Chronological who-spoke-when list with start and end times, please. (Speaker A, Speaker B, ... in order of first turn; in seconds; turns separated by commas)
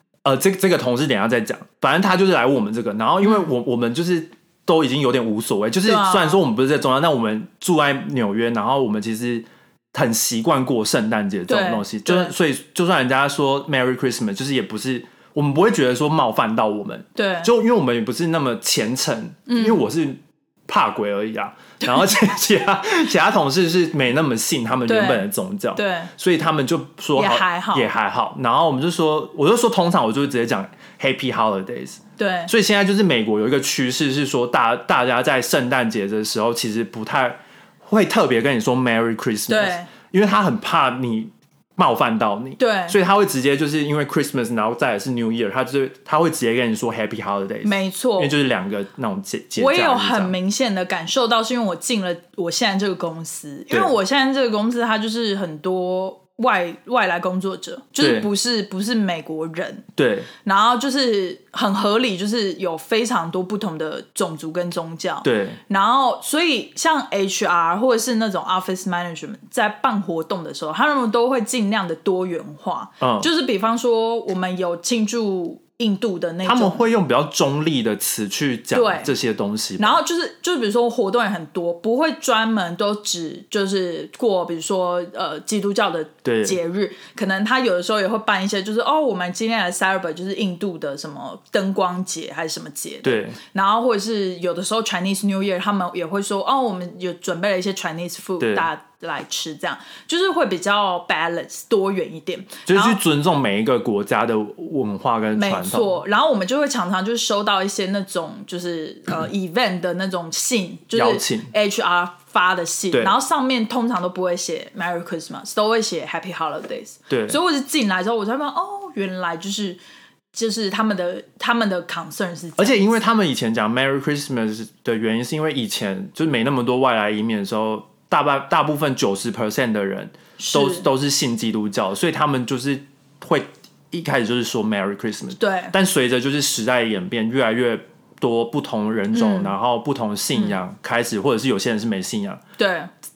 Speaker A: 0.2-50.4, Speaker B: 5.8-6.4, Speaker B: 11.5-12.3, Speaker B: 17.1-17.5, Speaker B: 19.5-19.9, Speaker B: 24.9-26.1, Speaker B: 27.1-27.9, Speaker B: 32.2-32.5, Speaker B: 39.5-39.9, Speaker B: 42.6-43.0, Speaker B: 47.6-48.3, Speaker B: 49.6-59.9, Speaker A: 53.7-54.0, Speaker A: 58.0-58.3, Speaker A: 60.0-60.3, Speaker B: 60.4-76.8, Speaker A: 65.2-65.6, Speaker A: 73.0-73.3, Speaker A: 76.4-80.0, Speaker B: 78.7-79.1, Speaker B: 79.8-103.0, Speaker A: 86.2-86.6, Speaker A: 93.0-93.4, Speaker A: 98.4-98.7, Speaker A: 102.7-106.0, Speaker B: 105.3-119.8, Speaker A: 110.9-111.5, Speaker A: 117.1-117.4, Speaker B: 120.3-122.9, Speaker A: 122.6-142.4, Speaker B: 130.4-130.9, Speaker B: 135.4-135.8, Speaker B: 139.1-139.6, Speaker B: 140.3-140.6, Speaker B: 142.6-142.9